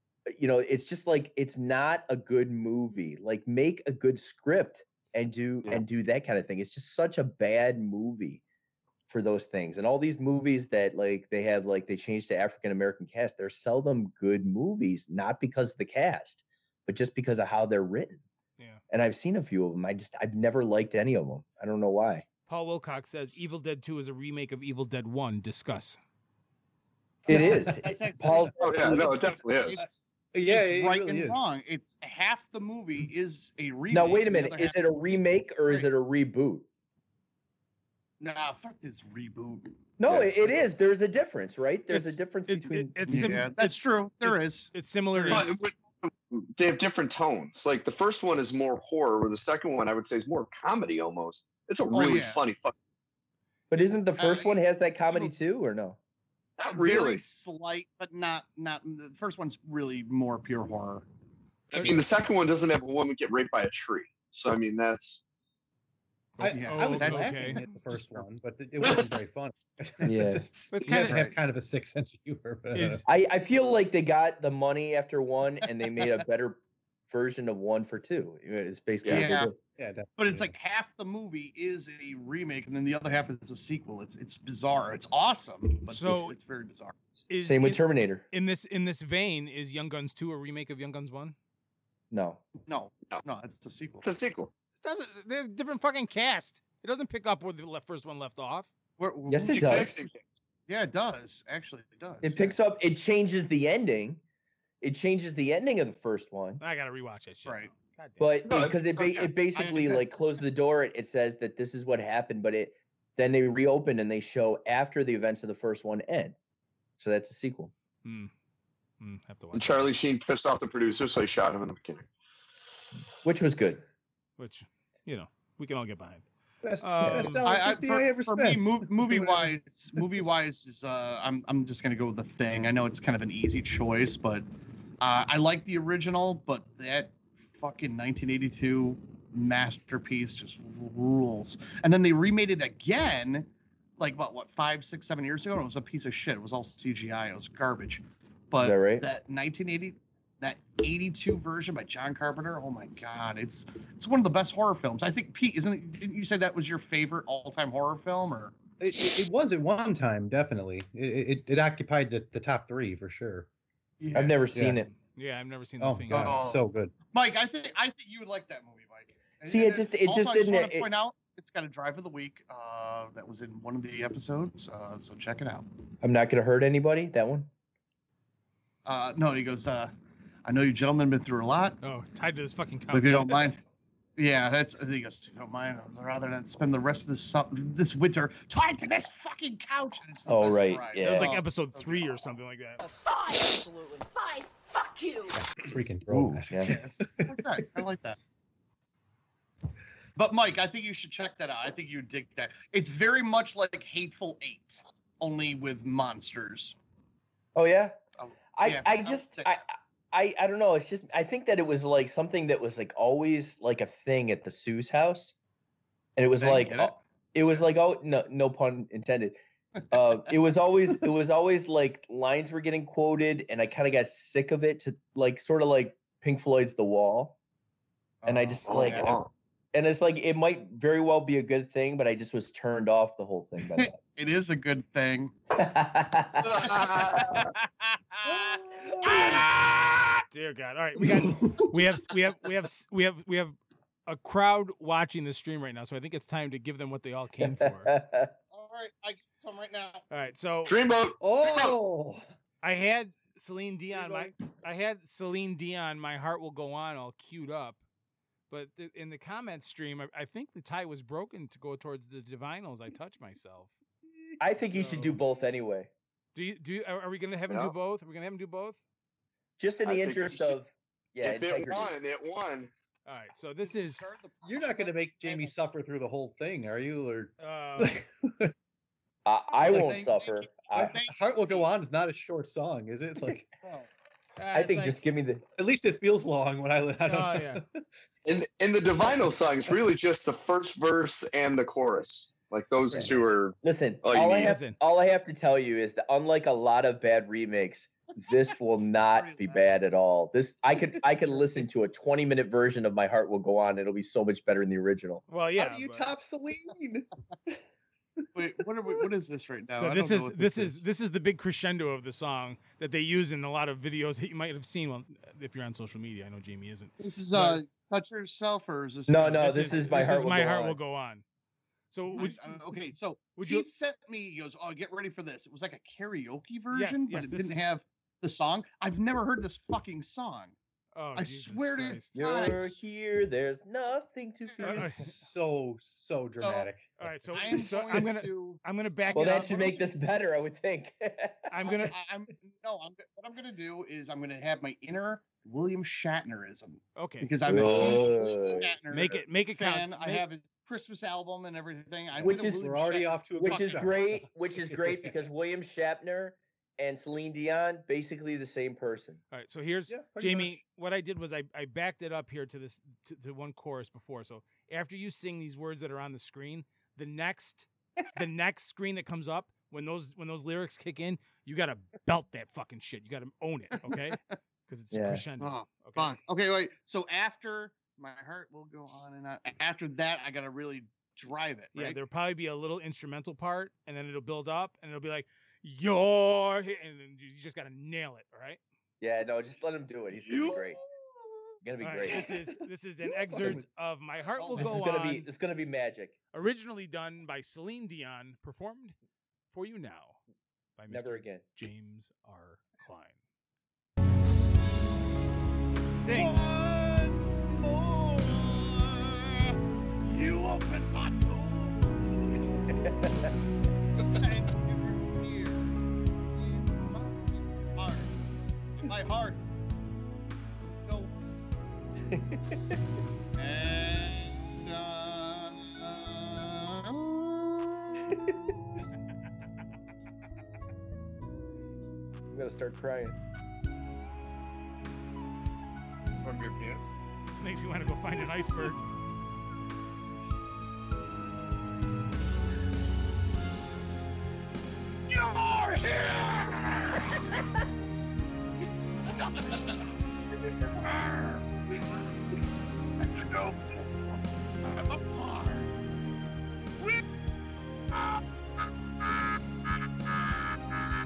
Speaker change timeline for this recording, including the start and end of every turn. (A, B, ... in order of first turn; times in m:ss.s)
0:00.3-0:08.4 A
0:09.1-0:18.2 A
0:18.9-0:22.2 A
0:22.5-0:26.0 B
0:27.3-0:29.2 A
0:27.3-0:28.4 C
0:27.3-0:35.9 D
0:28.6-0:29.8 E
0:29.8-0:31.4 C
0:33.9-0:36.7 A
0:38.2-0:39.8 D
0:40.0-0:43.4 A
0:41.9-0:45.5 B
0:43.1-0:45.5 D
0:45.3-0:52.7 E
0:51.9-0:52.4 D
0:53.7-0:56.0 A
0:54.2-0:55.3 D
0:56.6-0:57.2 E
0:56.7-1:01.0 D
1:01.7-1:05.2 E
1:06.4-1:07.6 B
1:06.4-1:13.0 C
1:06.5-1:08.2 D
1:10.0-1:10.4 A
1:10.7-1:11.2 B
1:10.8-1:11.1 E
1:10.9-1:11.3 D
1:12.7-1:13.0 B
1:13.1-1:19.5 A
1:19.0-1:19.3 E
1:19.1-1:19.5 D
1:19.7-1:20.5 C
1:20.2-1:27.0 D
1:25.9-1:26.4 B
1:27.3-1:31.4 B
1:27.4-1:28.2 A
1:32.1-1:32.4 A
1:32.6-1:34.1 D
1:34.0-1:34.5 E
1:34.8-1:38.7 B
1:39.0-1:39.9 D
1:39.3-1:39.9 A
1:39.5-1:40.4 E
1:40.7-1:42.6 D
1:42.2-1:44.2 A
1:44.8-1:46.6 A
1:46.6-1:48.3 B
1:48.2-1:56.4 A
1:48.5-1:49.3 E
1:49.1-1:50.1 D
1:57.0-1:57.7 A
1:58.0-1:58.3 B
1:59.0-1:59.9 B
1:59.5-2:02.1 E
2:03.2-2:03.8 A
2:04.4-2:06.2 B
2:06.6-2:10.0 C
2:06.8-2:07.4 B
2:07.4-2:14.4 D
2:15.0-2:38.6 D
2:28.6-2:29.0 A
2:38.8-2:43.5 C
2:44.0-2:44.4 D
2:44.1-2:44.9 A
2:44.5-2:44.8 C
2:45.0-2:46.4 B
2:45.8-2:47.0 C
2:46.1-2:55.7 D
2:49.4-2:50.9 A
2:56.0-2:57.5 A
2:58.8-2:59.9 D
3:00.4-3:01.8 D
3:01.8-3:03.5 B
3:02.9-3:03.6 D
3:04.2-3:12.2 D
3:10.3-3:11.3 A
3:11.0-3:12.8 B
3:12.8-3:15.4 F
3:15.3-3:17.6 C
3:16.1-3:16.7 A
3:16.6-3:18.2 D
3:20.2-3:26.8 D
3:27.5-3:28.0 A
3:28.2-3:29.6 D
3:28.6-3:35.4 A
3:36.2-3:39.4 A
3:36.4-3:37.0 D
3:39.9-3:47.4 A
3:48.2-3:49.1 D
3:48.2-3:49.2 A
3:48.6-3:49.3 E
3:49.7-3:54.0 A
3:53.7-3:55.3 D
3:55.5-3:56.8 A
3:56.4-3:57.4 E
3:56.8-4:00.1 D
3:58.2-3:59.4 C
3:59.0-3:59.4 A
4:00.3-4:03.6 B
4:01.1-4:01.7 C
4:04.1-4:07.9 B
4:07.4-4:08.3 A
4:08.5-4:10.0 D
4:10.1-4:10.7 B
4:10.6-4:11.8 E
4:11.2-4:12.2 C
4:12.6-4:17.8 B
4:13.9-4:14.3 C
4:18.5-4:23.7 B
4:24.4-4:25.9 A
4:24.7-4:25.2 B
4:26.3-4:28.8 B
4:29.6-4:32.0 A
4:29.8-4:30.6 E
4:31.2-4:32.7 E
4:33.0-4:34.0 B
4:33.6-4:35.6 D
4:34.4-4:38.5 C
4:37.4-4:38.0 B
4:39.2-4:41.0 A
4:39.6-4:41.7 D
4:40.7-4:43.5 C
4:43.6-4:43.9 D
4:44.4-4:45.0 B
4:44.5-4:45.4 A
4:45.6-4:47.8 C
4:47.0-4:47.6 B
4:48.2-4:54.6 E
4:52.9-4:53.2 C
4:53.6-5:05.2 A
4:54.4-4:54.8 B
4:59.0-4:59.7 D
5:05.3-5:06.1 B
5:05.6-5:07.6 C
5:08.3-5:10.8 D
5:09.8-5:17.6 B
5:17.0-5:20.1 D
5:19.1-5:20.8 A
5:19.3-5:21.2 B
5:21.9-5:22.4 B
5:22.1-5:30.6 D
5:23.4-5:23.7 B
5:26.7-5:27.7 B
5:30.9-5:32.2 B
5:31.2-5:32.8 D
5:32.1-5:35.1 A
5:34.6-5:35.1 B
5:34.8-5:38.1 C
5:36.4-5:36.7 D
5:37.0-5:39.6 B
5:37.3-5:39.8 D
5:39.1-5:41.8 A
5:41.5-5:41.9 B
5:41.7-5:53.9 D
5:47.0-5:47.3 B
5:47.4-5:48.7 A
5:47.6-5:49.2 E
5:48.9-5:50.2 B
5:52.1-5:55.1 C
5:52.2-5:52.6 A
5:53.4-5:59.2 A
5:59.3-6:16.2 B
5:59.9-6:00.6 C
6:13.9-6:14.4 D
6:14.9-6:15.2 A
6:15.4-6:22.0 D
6:21.7-6:28.6 B
6:29.0-6:30.8 A
6:30.2-6:31.3 D
6:31.6-6:32.2 A
6:31.8-6:35.3 B
6:33.2-6:33.6 C
6:34.4-6:34.7 D
6:34.6-6:36.2 A
6:36.3-6:38.9 B
6:39.5-6:40.2 B
6:40.8-6:43.2 B
6:40.9-6:41.4 A
6:46.0-6:46.4 B
6:46.1-6:52.7 D
6:52.7-6:53.3 A
6:54.0-6:55.8 D
6:56.3-6:59.5 D
7:00.8-7:01.1 D
7:02.1-7:02.8 A
7:03.4-7:08.2 D
7:12.3-7:13.2 A
7:16.2-7:17.0 E
7:17.3-7:18.8 B
7:25.1-7:27.2 D
7:28.8-7:31.4 D
7:33.0-7:34.1 D
7:34.6-7:35.7 D